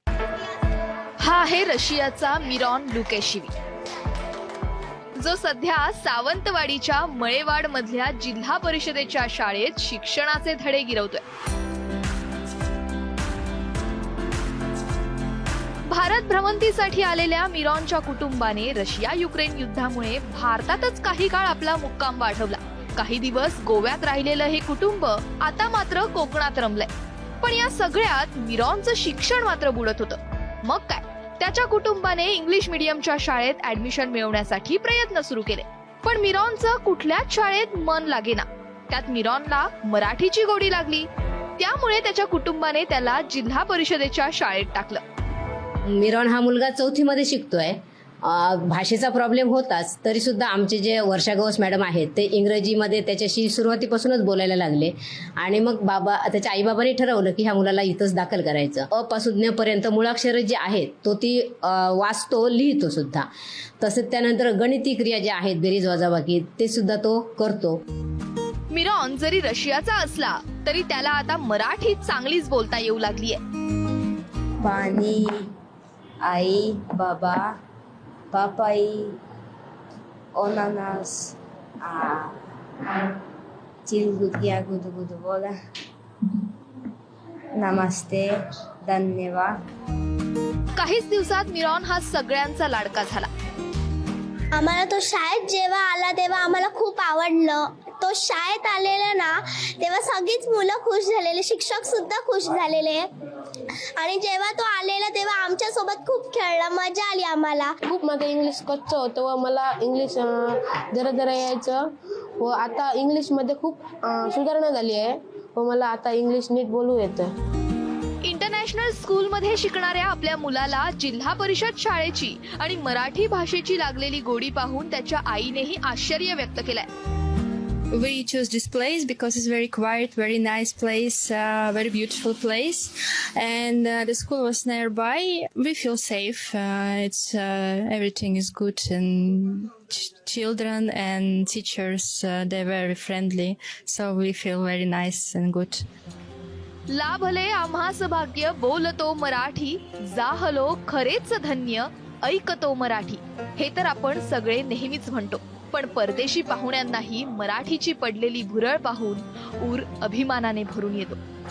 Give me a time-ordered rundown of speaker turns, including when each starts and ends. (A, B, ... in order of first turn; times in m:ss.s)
0:01.2-0:03.5 A
0:05.2-0:11.2 A
0:15.9-0:26.9 A
0:27.4-0:41.1 A
0:41.6-0:45.0 A
0:45.8-1:03.3 B
1:03.8-1:07.8 B
1:08.7-1:13.4 A
1:14.6-1:15.4 C
1:16.2-1:17.5 C
1:18.3-1:19.2 C
1:20.3-1:22.4 C
1:23.8-1:25.5 C
1:27.5-1:28.3 C
1:28.8-1:29.5 C
1:30.8-1:33.3 A
1:34.5-1:43.1 D
1:43.8-1:47.8 D
1:47.9-1:50.4 E
1:50.9-1:51.8 E
1:52.4-1:57.2 E
1:58.2-2:06.9 A
2:07.9-2:25.8 F
2:26.9-2:41.2 A